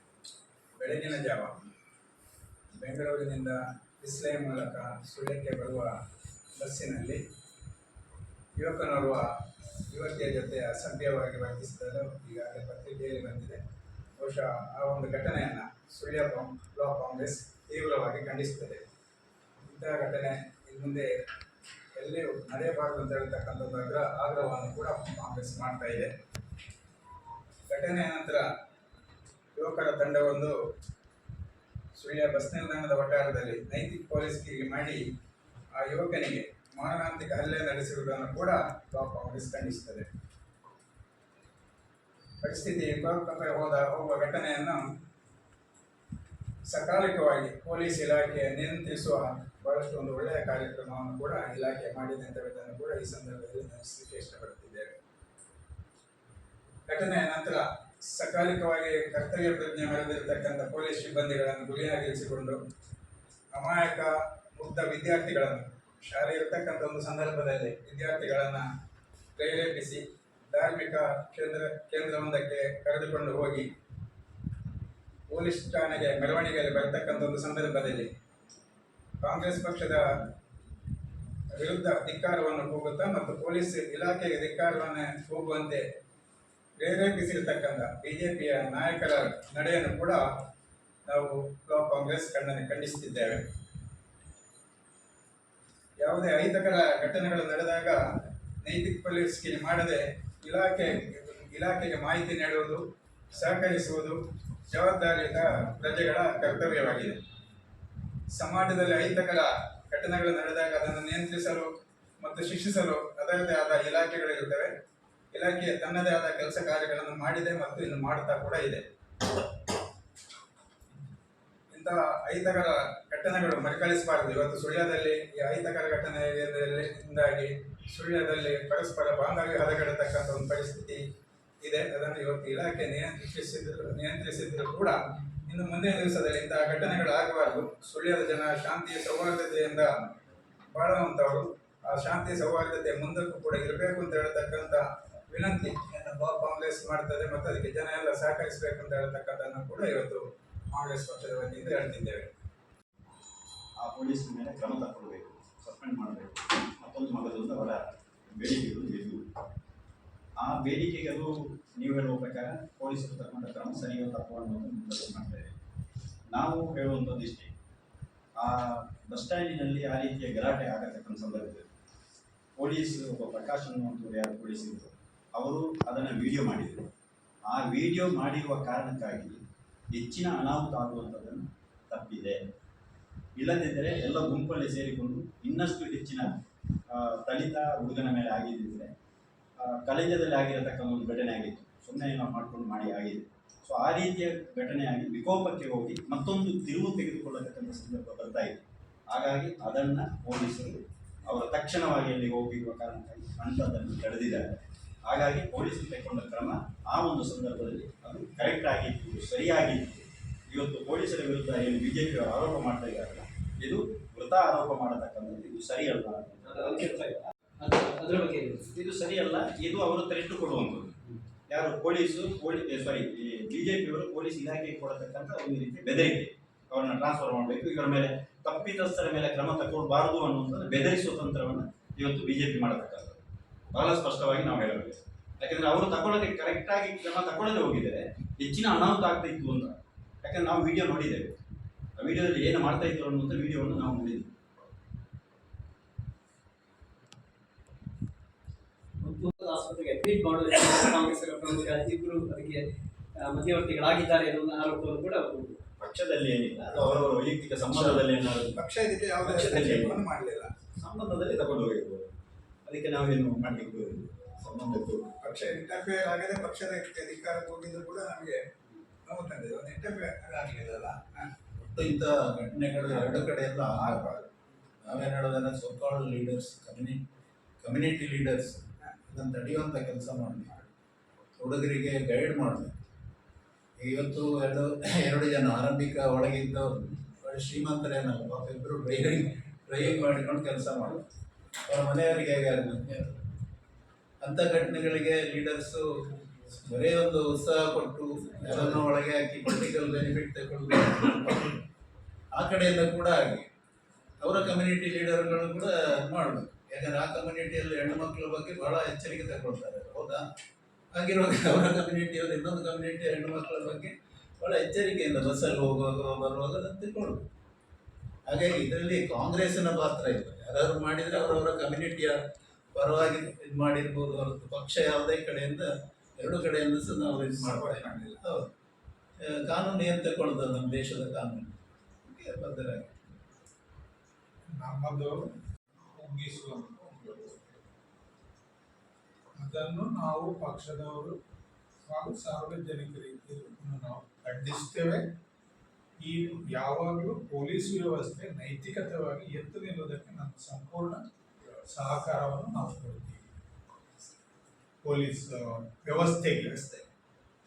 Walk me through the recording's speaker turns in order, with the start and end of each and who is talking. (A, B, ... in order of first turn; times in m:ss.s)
0:00.8-0:01.5 A
0:02.8-0:05.9 A
0:06.6-0:07.2 A
0:08.6-0:09.2 A
0:09.9-0:13.6 A
0:14.2-0:18.8 A
0:19.6-0:21.1 A
0:22.0-0:26.1 A
0:27.7-0:28.5 A
0:29.6-0:30.6 A
0:32.0-0:35.0 A
0:35.7-0:40.1 A
0:42.4-0:44.8 A
0:46.7-0:55.0 A
0:56.9-1:02.6 A
1:03.5-1:08.7 A
1:09.4-1:13.7 A
1:15.3-1:18.1 A
1:19.2-1:20.0 A
1:21.5-1:25.8 A
1:26.8-1:30.2 A
1:31.1-1:33.4 A
1:36.0-1:38.0 A
1:38.6-1:44.2 A
1:44.7-1:47.2 A
1:48.3-1:54.7 A
1:55.3-1:58.8 A
2:01.7-2:11.0 A
2:11.6-2:15.0 A
2:15.5-2:20.0 A
2:20.7-2:32.3 A
2:33.8-2:39.2 B
2:40.4-2:45.5 B
2:46.3-2:47.5 B
2:48.4-2:51.7 B
2:52.6-2:56.9 B
2:57.5-2:59.4 B
2:59.9-3:02.4 B
3:03.4-3:06.3 B
3:06.9-3:08.9 B
3:09.6-3:24.5 B
3:25.0-3:36.9 B
3:36.5-3:38.7 C
3:38.7-4:01.4 B
4:02.0-4:04.3 B
4:09.0-4:15.7 C
4:15.8-4:18.6 B
4:17.7-4:18.0 A
4:18.5-4:20.5 A
4:19.2-4:20.0 B
4:20.8-4:22.1 B
4:22.7-4:25.2 B
4:25.2-4:28.4 A
4:29.1-4:31.3 A
4:31.6-4:34.0 D
4:33.1-4:34.3 A
4:34.8-4:37.1 D
4:37.6-4:40.6 D
4:41.4-4:42.7 D
4:43.8-4:51.0 D
4:51.6-4:53.2 D
4:54.2-4:55.9 D
4:56.4-5:01.6 D
5:02.3-5:03.5 D
5:04.2-5:10.3 D
5:10.9-5:17.2 D
5:18.3-5:22.2 D
5:22.7-5:28.5 D
5:27.2-5:28.2 A
5:29.2-5:31.5 D
5:32.0-5:32.9 D
5:34.5-5:35.3 E
5:36.0-5:37.4 E
5:39.4-5:41.2 E
5:41.9-5:45.1 E
5:46.0-5:51.1 E
5:51.6-5:53.3 E
5:54.8-5:56.8 E